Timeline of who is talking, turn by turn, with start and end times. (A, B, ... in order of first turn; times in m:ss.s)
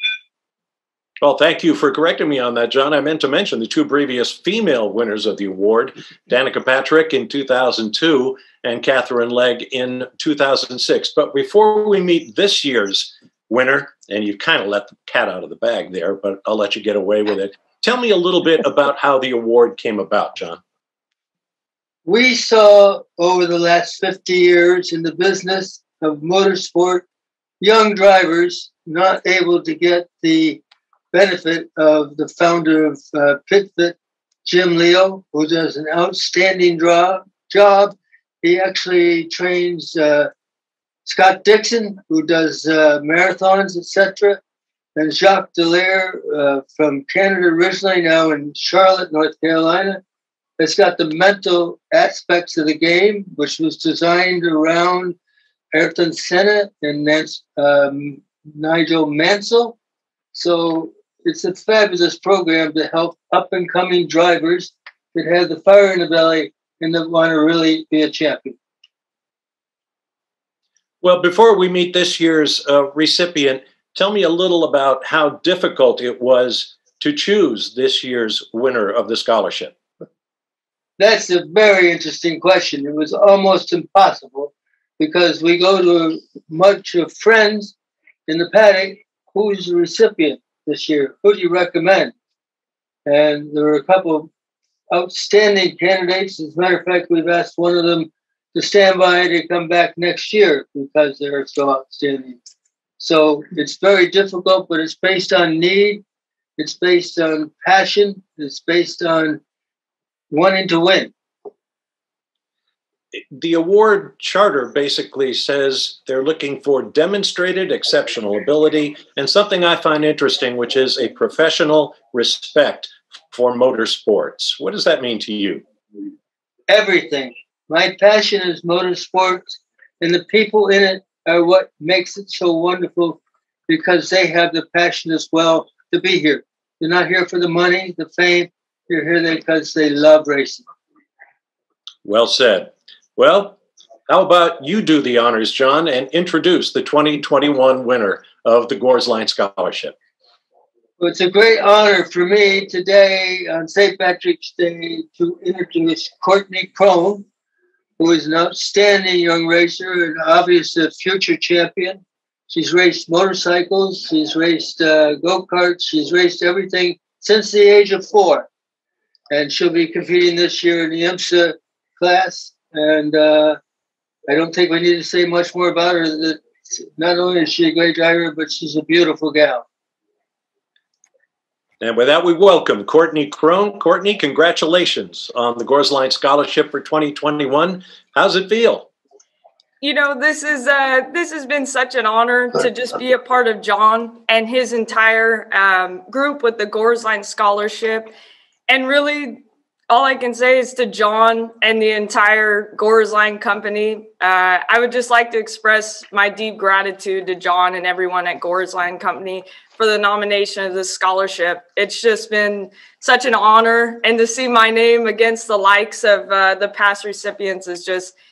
0:01.2-0:20.6 A
0:22.0-0:27.0 B
0:27.6-0:30.6 B
0:31.1-0:40.3 B
0:41.0-0:44.4 B
0:45.0-0:50.0 B
0:50.6-0:55.2 B
0:55.7-0:59.8 B
1:00.3-1:08.6 B
1:11.0-1:19.7 A
1:21.0-1:27.7 B
1:28.3-1:32.1 B
1:33.0-1:34.3 B
1:34.9-1:42.4 B
1:43.0-1:46.0 B
1:46.6-1:49.4 B
1:50.3-1:51.1 B
1:53.3-2:05.6 A
2:06.7-2:20.6 B
2:22.0-2:29.9 A
2:31.0-2:37.2 B
2:38.0-2:48.5 B
2:49.3-2:53.6 B
2:54.3-2:59.6 B
3:01.8-3:08.9 A
3:09.8-3:18.1 C
3:18.7-3:38.1 C